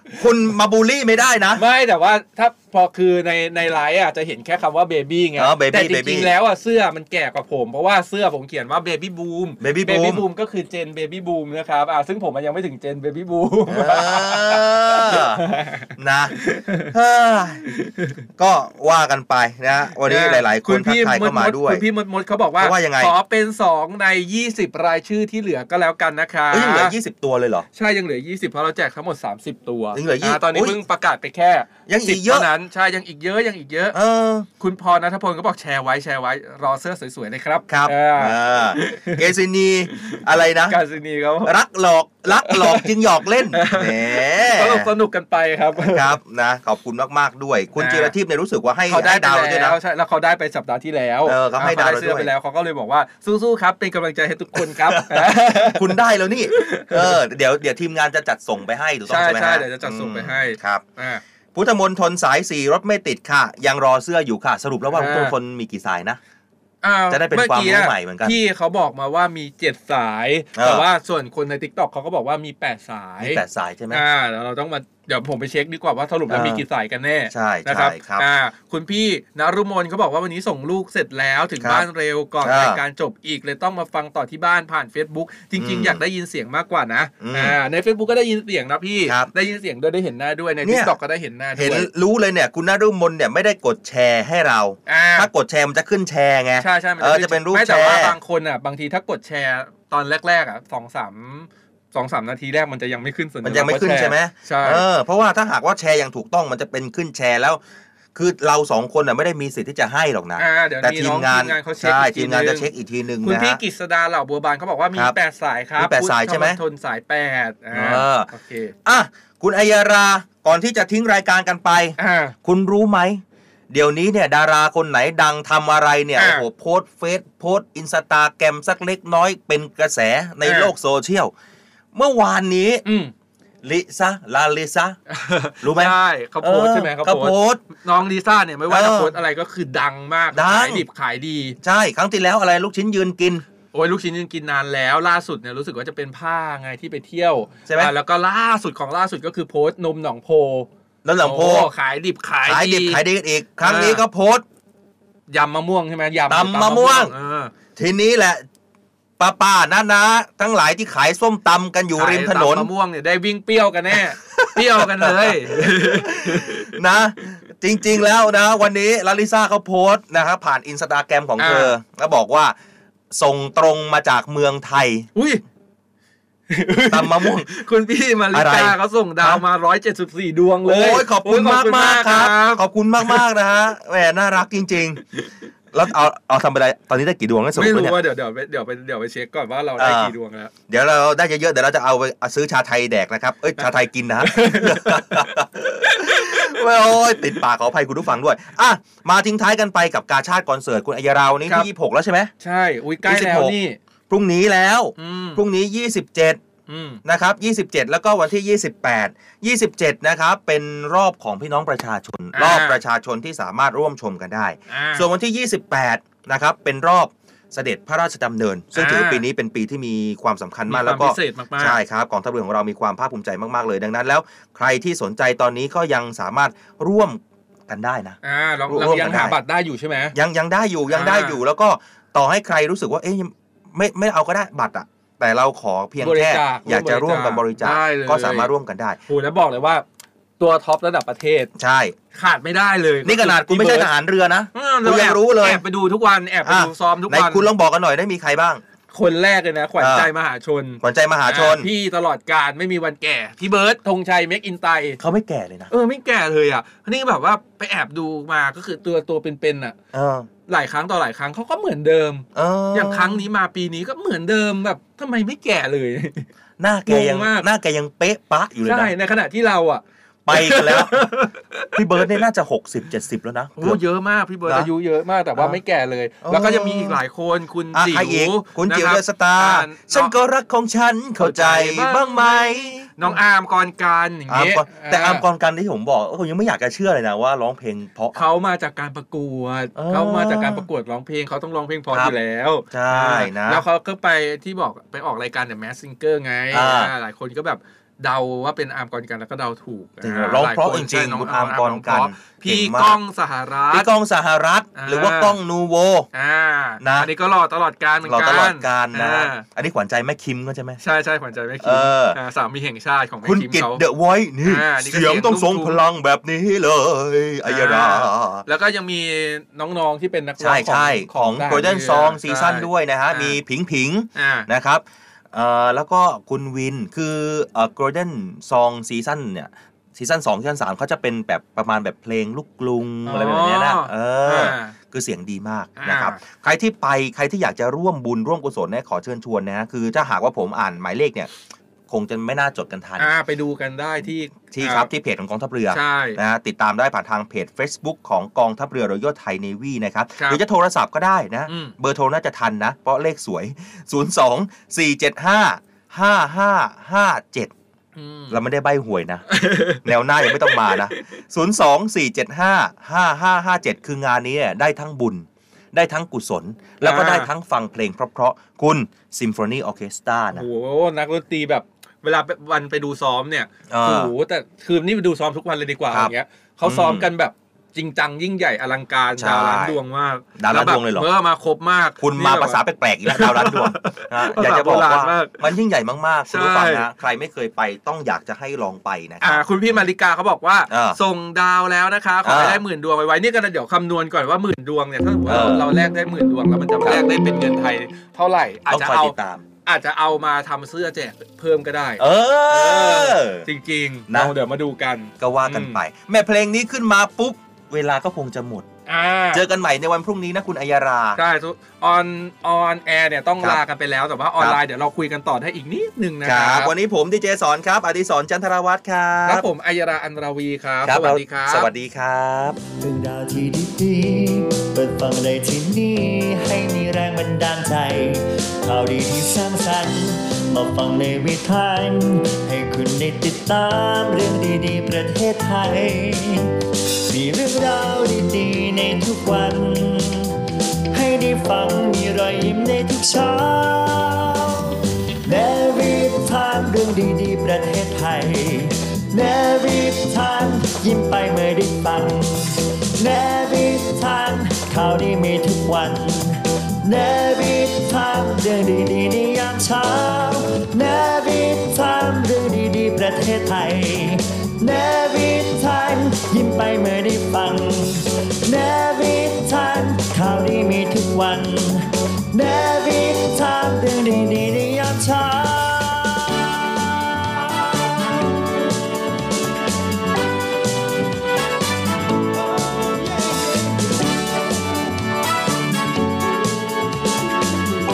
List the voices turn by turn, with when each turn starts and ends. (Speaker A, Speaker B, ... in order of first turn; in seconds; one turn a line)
Speaker A: 0.1-1.6
Speaker B: 1.6-16.9
Speaker A: 5.4-6.3
Speaker A: 9.6-10.2
Speaker A: 13.7-15.4
Speaker A: 16.0-17.7
Speaker B: 17.8-18.1
Speaker A: 18.4-21.8
Speaker B: 20.1-26.9
Speaker A: 22.6-23.1
Speaker A: 26.5-27.7
Speaker B: 27.8-34.0
Speaker A: 29.9-30.8
Speaker A: 31.9-32.5
Speaker A: 33.9-34.5
Speaker B: 34.6-39.2
Speaker A: 37.7-40.8
Speaker B: 40.0-41.5
Speaker A: 41.4-44.9
Speaker B: 42.4-42.9
Speaker B: 43.5-46.1
Speaker A: 45.8-49.8
Speaker B: 47.8-48.1
Speaker B: 48.9-55.9
Speaker A: 51.2-52.3
Speaker A: 54.6-60.8
Speaker B: 56.5-57.2
Speaker B: 59.1-61.2
Speaker A: 61.5-66.2
Speaker B: 64.9-65.3
Speaker B: 66.8-91.9
Speaker A: 67.1-68.4
Speaker A: 70.5-70.9
Speaker A: 73.2-74.0
Speaker A: 76.3-76.6
Speaker A: 77.3-78.3
Speaker A: 81.6-81.9
Speaker A: 82.4-82.8
Speaker A: 85.5-86.0
Speaker A: 87.2-87.6
Speaker A: 89.0-89.3
Speaker A: 90.6-91.0
Speaker A: 91.6-98.2
Speaker B: 94.9-95.3
Speaker B: 96.6-104.8
Speaker A: 103.4-107.6
Speaker A: 108.2-113.6
Speaker B: 110.4-112.7
Speaker B: 113.2-118.7
Speaker A: 115.8-116.6
Speaker A: 117.7-118.3
Speaker A: 118.8-131.3
Speaker B: 122.0-122.3
Speaker B: 126.2-126.5
Speaker B: 130.4-130.7
Speaker A: 131.9-132.8
Speaker B: 132.8-133.1
Speaker A: 133.6-135.0
Speaker B: 135.1-141.6
Speaker A: 135.6-137.6
Speaker A: 138.7-139.1
Speaker A: 140.3-140.8
Speaker A: 141.6-143.4
Speaker B: 143.7-150.7
Speaker A: 151.1-151.7
Speaker B: 151.2-153.0
Speaker A: 152.4-154.4
Speaker B: 153.6-154.0
Speaker B: 155.3-157.5
Speaker A: 156.3-157.1
Speaker A: 157.8-158.4
Speaker A: 159.2-162.7
Speaker B: 161.9-166.8
Speaker A: 163.9-172.6
Speaker B: 171.4-171.8
Speaker A: 173.1-175.1
Speaker B: 175.2-175.4
Speaker B: 176.5-183.2
Speaker A: 176.9-177.5
Speaker A: 178.3-179.4
Speaker A: 180.6-185.0
Speaker A: 185.7-188.0
Speaker B: 187.6-190.5
Speaker A: 189.8-190.1
Speaker A: 190.7-202.3
Speaker B: 194.2-195.3
Speaker B: 195.8-197.4
Speaker B: 202.4-203.8
Speaker A: 203.0-203.6
Speaker A: 204.1-206.4
Speaker B: 205.0-205.4
Speaker B: 206.7-207.0
Speaker A: 207.0-229.4
Speaker B: 212.3-212.8
Speaker B: 214.7-215.1
Speaker B: 218.7-219.2
Speaker B: 220.7-221.8
Speaker B: 228.2-230.2
Speaker A: 230.2-239.0
Speaker B: 230.9-231.4
Speaker B: 236.0-238.5
Speaker B: 239.1-239.8
Speaker B: 240.4-241.5
Speaker A: 241.6-241.9
Speaker B: 242.1-243.9
Speaker A: 243.0-245.6
Speaker B: 244.5-247.5
Speaker A: 246.4-248.6
Speaker B: 248.9-255.0
Speaker A: 249.8-250.1
Speaker A: 250.8-251.7
Speaker A: 255.0-255.7
Speaker B: 255.7-259.8
Speaker A: 259.9-260.3
Speaker B: 260.5-266.3
Speaker A: 262.4-263.2
Speaker A: 266.6-268.9
Speaker B: 266.9-267.5
Speaker B: 268.6-272.1
Speaker A: 270.3-271.1
Speaker A: 271.7-273.8
Speaker B: 273.6-280.1
Speaker A: 276.2-277.0
Speaker A: 277.7-283.2
Speaker B: 281.2-285.2
Speaker A: 284.3-288.2
Speaker B: 288.1-303.9
Speaker A: 289.8-290.7
Speaker A: 292.7-293.6
Speaker A: 296.5-296.9
Speaker A: 300.0-303.0
Speaker A: 303.7-306.1
Speaker B: 304.8-305.4
Speaker B: 306.1-309.4
Speaker A: 306.8-307.1
Speaker A: 308.0-310.8
Speaker B: 310.8-313.8
Speaker A: 311.6-312.2
Speaker A: 313.2-318.4
Speaker B: 314.4-315.8
Speaker B: 317.5-323.4
Speaker A: 320.4-341.3
Speaker B: 324.2-324.5
Speaker B: 333.1-334.8
Speaker B: 335.8-336.2
Speaker A: 341.9-343.1
Speaker B: 343.0-344.9
Speaker A: 344.5-357.5
Speaker B: 345.7-346.2
Speaker B: 351.5-351.7
Speaker B: 358.0-358.4
Speaker A: 358.3-370.5
Speaker B: 359.3-361.0
Speaker B: 366.8-367.3
Speaker B: 370.3-385.4
Speaker A: 373.7-374.1
Speaker A: 376.6-377.1
Speaker A: 379.2-379.8
Speaker A: 380.4-381.1
Speaker A: 382.0-389.8
Speaker B: 386.3-386.9
Speaker B: 389.2-399.1
Speaker A: 390.7-391.0
Speaker A: 392.2-392.6
Speaker A: 395.3-395.7
Speaker A: 398.7-399.4
Speaker B: 399.7-405.8
Speaker A: 402.0-403.4
Speaker A: 404.1-404.3
Speaker A: 405.2-408.7
Speaker B: 408.9-409.4
Speaker A: 409.3-411.2
Speaker B: 411.2-416.7
Speaker A: 416.2-419.4
Speaker B: 419.3-421.7
Speaker A: 420.9-422.6
Speaker C: 422.8-436.6
Speaker C: 437.1-440.4
Speaker C: 440.9-478.7
Speaker C: 482.5-484.0